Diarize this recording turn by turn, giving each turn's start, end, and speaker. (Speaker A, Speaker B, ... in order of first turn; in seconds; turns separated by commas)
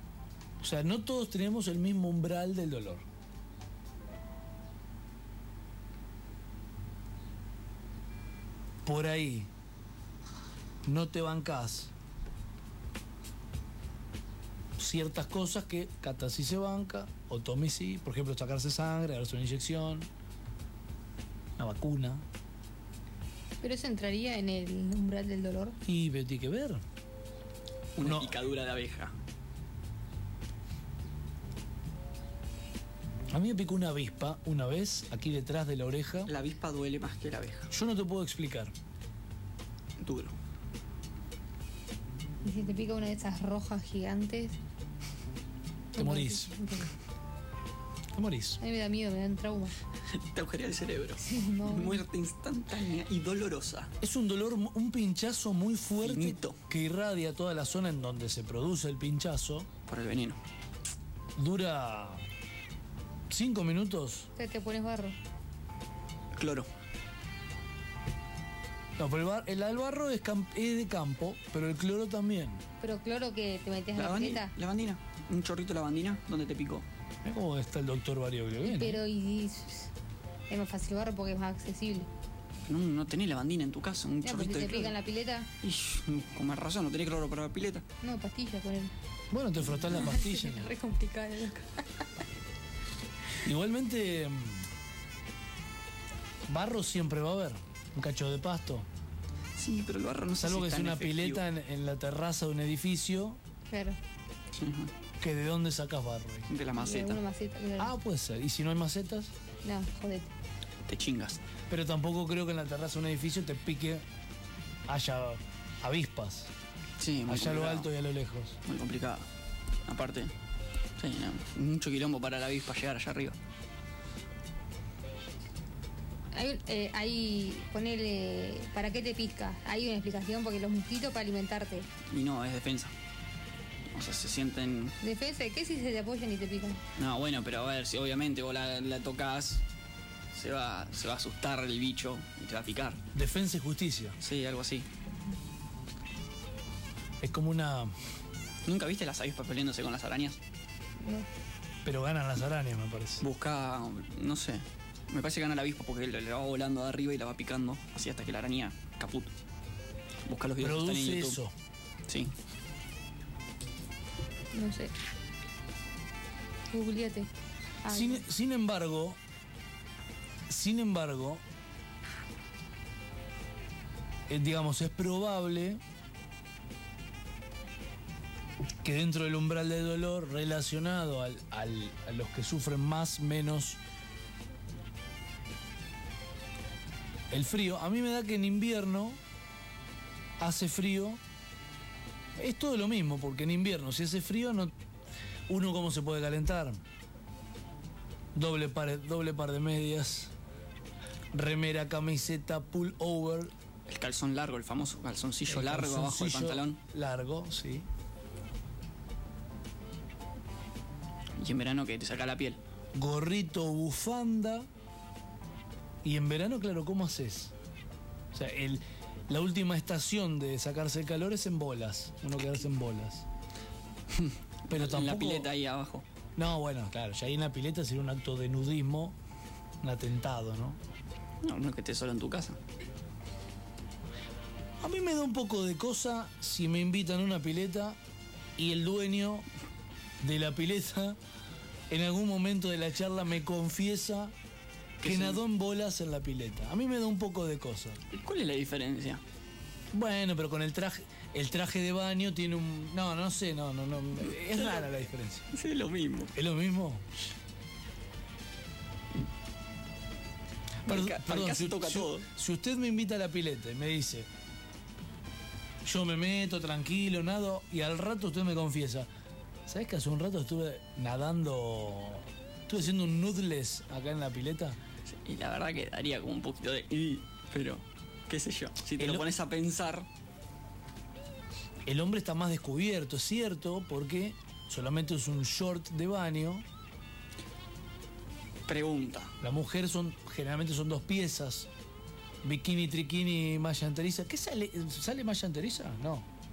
Speaker A: 0.6-3.0, Speaker A: 8.8-9.5, Speaker A: 10.8-11.9, Speaker A: 14.8-20.1, Speaker A: 21.6-22.2, Speaker B: 23.6-25.8, Speaker A: 25.8-26.8, Speaker C: 27.9-29.1, Speaker A: 28.0-28.3, Speaker A: 33.3-36.3, Speaker C: 36.3-37.7, Speaker A: 37.7-38.7, Speaker C: 40.0-40.3, Speaker B: 42.4-44.6, Speaker B: 45.9-46.9, Speaker A: 46.0-46.5, Speaker A: 48.1-48.6, Speaker B: 48.6-49.7, Speaker C: 50.1-53.9, Speaker B: 51.2-52.0, Speaker A: 54.0-59.7, Speaker C: 56.0-56.6, Speaker C: 59.9-60.4, Speaker A: 61.4-62.2, Speaker A: 63.3-64.3, Speaker B: 64.3-65.2, Speaker C: 66.3-66.7, Speaker A: 69.0-72.6, Speaker B: 72.8-74.5, Speaker C: 73.9-76.8, Speaker A: 77.2-79.0, Speaker B: 78.6-79.9, Speaker B: 80.5-82.1, Speaker C: 82.7-85.0, Speaker B: 84.2-85.5, Speaker C: 85.6-87.8, Speaker B: 88.0-88.9, Speaker A: 89.3-90.7, Speaker B: 89.9-92.0, Speaker A: 93.4-94.7, Speaker A: 96.5-98.9, Speaker C: 99.5-101.4, Speaker A: 100.4-103.4, Speaker B: 103.7-104.0, Speaker C: 104.5-104.9, Speaker A: 105.2-106.5, Speaker C: 106.5-107.2, Speaker B: 106.8-107.9, Speaker A: 107.8-109.3, Speaker B: 109.6-110.3, Speaker C: 110.9-111.4, Speaker A: 111.7-114.0, Speaker A: 114.9-116.5, Speaker C: 117.0-117.9, Speaker A: 117.2-118.6, Speaker C: 118.6-119.3, Speaker C: 119.9-120.3, Speaker C: 121.0-123.3, Speaker B: 126.3-131.9, Speaker C: 132.1-132.9, Speaker C: 133.9-134.9, Speaker B: 135.0-136.8, Speaker C: 137.0-139.6, Speaker C: 140.3-143.0, Speaker A: 143.1-144.2, Speaker C: 144.2-144.9, Speaker A: 147.2-147.9, Speaker C: 148.7-150.4, Speaker B: 151.0-151.3, Speaker A: 151.8-153.2, Speaker C: 153.2-159.3, Speaker C: 160.3-161.4, Speaker A: 160.6-161.5, Speaker B: 164.5-164.9, Speaker B: 166.7-167.3, Speaker B: 167.8-168.2, Speaker A: 167.9-169.2, Speaker A: 170.5-171.4, Speaker A: 174.3-175.8, Speaker A: 178.8-183.8, Speaker A: 187.3-189.2, Speaker A: 190.4-191.2, Speaker A: 192.3-194.7, Speaker A: 195.5-196.8, Speaker A: 198.3-200.3, Speaker A: 201.3-203.5, Speaker C: 203.9-206.8, Speaker A: 205.5-207.8, Speaker C: 211.4-212.6, Speaker A: 212.9-214.7, Speaker A: 216.0-217.5, Speaker A: 218.3-223.2, Speaker C: 224.1-226.1, Speaker A: 224.7-225.5, Speaker A: 226.4-229.2, Speaker A: 229.8-230.8, Speaker C: 231.4-232.6, Speaker A: 234.8-238.0, Speaker A: 238.6-239.4, Speaker A: 240.2-241.2, Speaker A: 241.9-244.3, Speaker C: 245.0-245.4, Speaker A: 245.0-248.0, Speaker C: 248.1-249.2, Speaker A: 249.9-255.5, Speaker C: 254.4-254.9, Speaker C: 255.5-256.3, Speaker A: 256.3-257.0, Speaker C: 260.9-262.2, Speaker A: 260.9-264.3, Speaker A: 265.8-269.1, Speaker A: 269.7-274.8, Speaker C: 275.1-280.1, Speaker A: 279.0-279.3, Speaker A: 281.9-286.6, Speaker C: 288.7-289.3, Speaker A: 289.4-291.7, Speaker A: 292.4-296.3